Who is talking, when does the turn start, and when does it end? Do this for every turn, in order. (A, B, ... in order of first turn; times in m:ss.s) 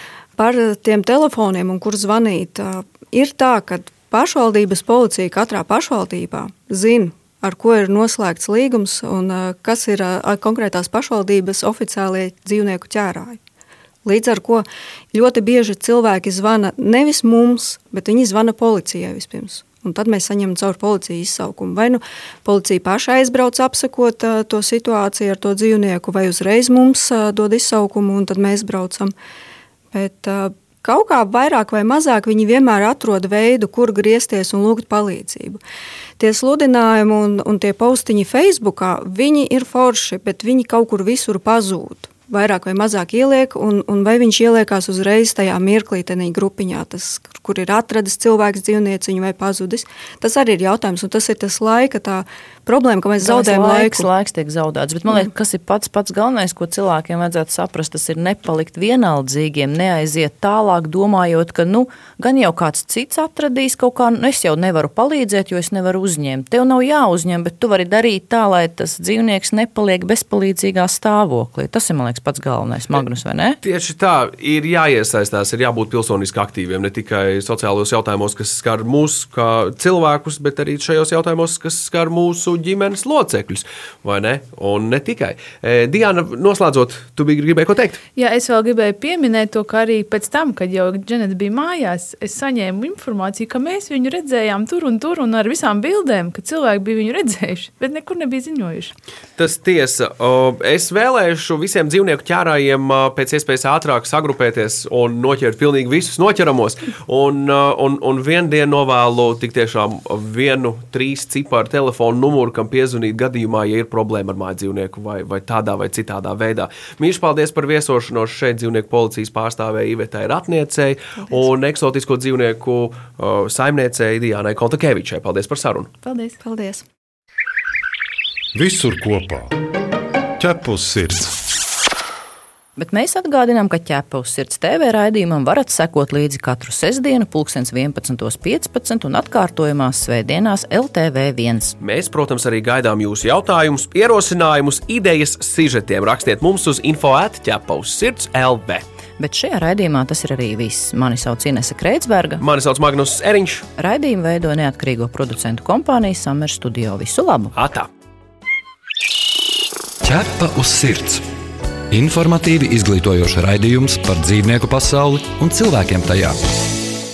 0:00.4-0:13.4 A
0:14.0-0:29.1 A
0:29.9-0:35.6 A
0:36.2-0:54.1 A
0:53.2-1:13.6 B
1:13.6-1:28.0 C
1:28.2-1:38.9 D
1:39.4-2:05.9 C
2:06.0-2:06.4 D
2:06.4-2:06.8 A
2:08.5-2:09.6 E
2:10.4-2:11.3 E
2:12.8-2:21.8 B
2:21.8-2:28.8 C
2:29.2-2:32.4 B
2:32.4-2:33.6 C
2:33.8-2:37.6 B
2:37.6-2:37.9 C
2:40.0-2:41.2 F
2:41.9-2:46.4 F